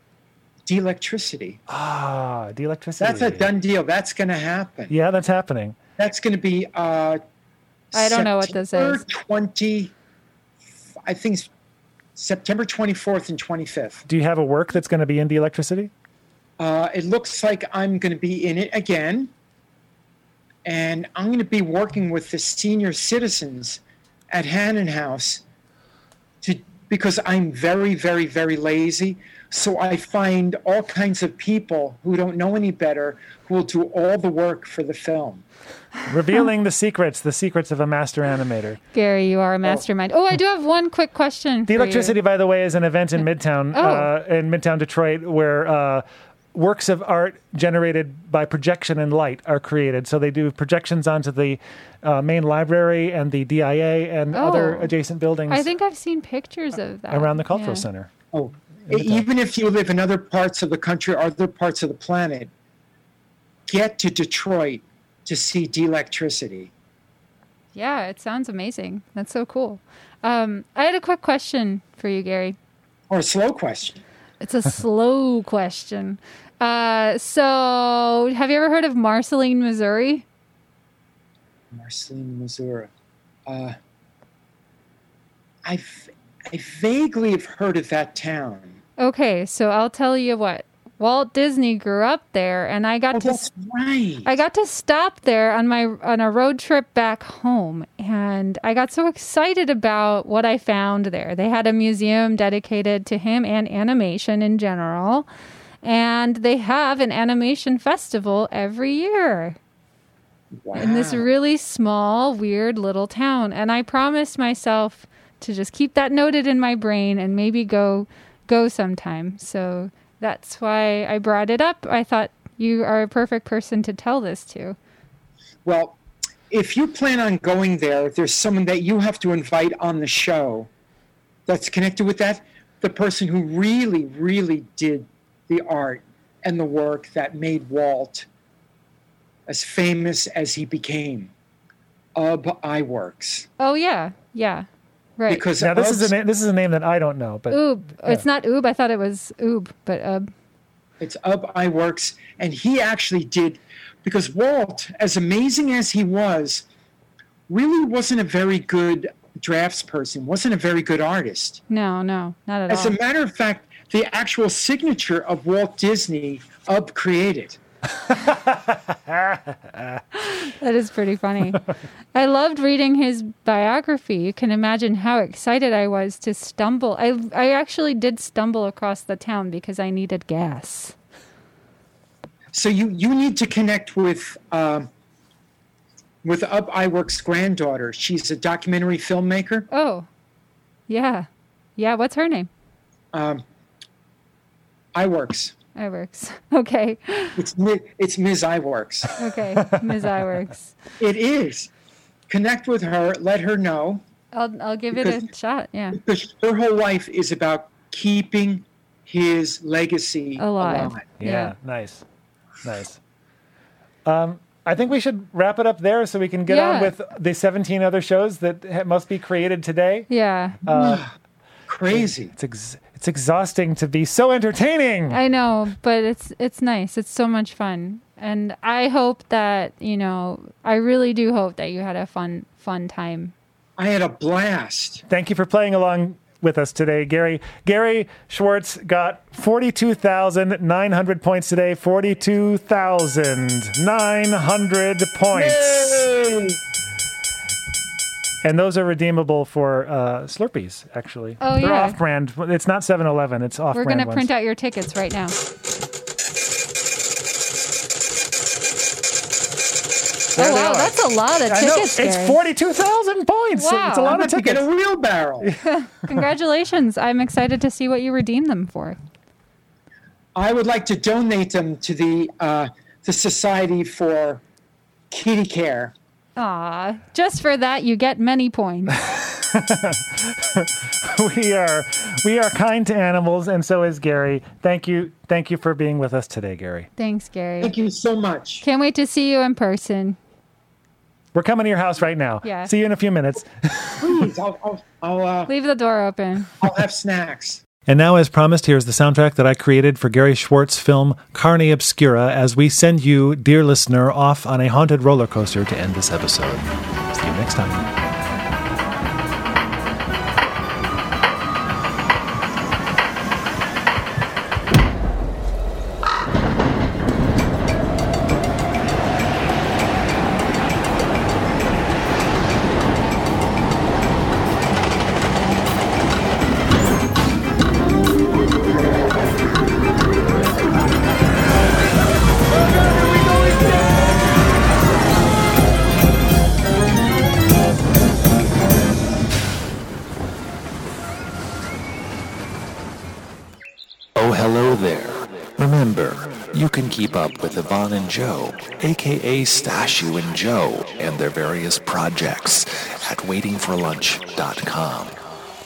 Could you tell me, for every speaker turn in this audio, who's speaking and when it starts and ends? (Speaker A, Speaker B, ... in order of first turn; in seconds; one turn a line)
Speaker A: 0.7-1.6
Speaker B: 1.7-3.5
Speaker A: 3.0-4.9
Speaker B: 4.9-5.8
Speaker A: 6.0-7.2
Speaker A: 7.9-9.9
Speaker C: 7.9-9.0
Speaker A: 11.0-11.5
Speaker A: 12.2-14.0
Speaker B: 14.1-15.9
Speaker A: 16.6-19.3
Speaker A: 20.6-23.8
Speaker A: 24.3-25.4
Speaker A: 26.4-35.4
Speaker B: 36.1-38.8
Speaker C: 38.9-42.2
Speaker B: 41.7-55.7
Speaker C: 43.7-44.1
Speaker C: 54.3-54.9
Speaker C: 55.5-57.9
Speaker B: 57.1-58.1
Speaker A: 58.3-62.5
Speaker B: 58.9-59.2
Speaker A: 63.7-66.7
Speaker C: 67.7-72.6
Speaker A: 73.1-74.0
Speaker C: 74.4-80.2
Speaker A: 81.7-82.9
Speaker A: 83.5-83.8
Speaker A: 85.6-88.8
Speaker C: 89.0-93.4
Speaker A: 93.1-94.4
Speaker C: 94.2-105.3
Speaker C: 105.8-109.6
Speaker A: 110.5-111.2
Speaker C: 110.7-124.8
Speaker A: 125.6-126.0
Speaker A: 126.5-130.7
Speaker A: 131.5-138.2
Speaker A: 139.5-141.3
Speaker A: 142.1-143.5
Speaker C: 143.6-144.7
Speaker C: 145.2-145.4
Speaker A: 145.3-146.1
Speaker B: 145.6-148.2
Speaker C: 147.5-150.3
Speaker A: 151.0-156.6
Speaker A: 157.5-161.6
Speaker C: 161.7-163.0
Speaker A: 162.7-167.6
Speaker B: 168.0-170.0
Speaker C: 170.1-180.9
Speaker A: 182.5-184.9
Speaker A: 186.2-189.7
Speaker C: 189.7-190.1
Speaker C: 190.9-192.5
Speaker A: 193.1-193.4
Speaker A: 194.9-195.5
Speaker C: 195.8-197.4
Speaker A: 197.4-199.1
Speaker C: 199.2-200.7
Speaker B: 199.6-199.9
Speaker A: 201.0-201.7
Speaker A: 202.3-204.0
Speaker C: 204.3-206.0
Speaker A: 204.9-205.3
Speaker A: 205.9-211.1
Speaker C: 210.4-211.5
Speaker B: 211.2-212.0
Speaker B: 212.6-213.0
Speaker B: 214.0-220.1
Speaker C: 216.5-216.9
Speaker C: 220.1-220.6
Speaker B: 220.6-221.1
Speaker A: 220.7-221.1
Speaker A: 221.7-222.3
Speaker B: 221.9-225.2
Speaker C: 225.1-233.3
Speaker A: 233.8-235.0
Speaker B: 235.1-246.1
Speaker A: 245.3-246.6
Speaker B: 248.4-254.3
Speaker C: 251.4-252.0
Speaker C: 253.7-255.3
Speaker B: 260.3-260.9
Speaker C: 260.4-262.4
Speaker B: 261.5-264.7
Speaker C: 263.5-264.2
Speaker A: 264.0-265.6
Speaker C: 265.6-269.0
Speaker A: 270.3-274.4
Speaker A: 275.1-275.9
Speaker C: 276.4-278.9
Speaker B: 278.9-286.9
Speaker C: 287.0-287.7
Speaker A: 287.6-288.6
Speaker C: 288.6-290.2
Speaker B: 291.3-294.3
Speaker C: 292.4-292.7
Speaker A: 294.0-295.5
Speaker C: 295.5-296.5
Speaker A: 296.6-297.6
Speaker B: 297.9-307.9
Speaker D: 344.1-355.2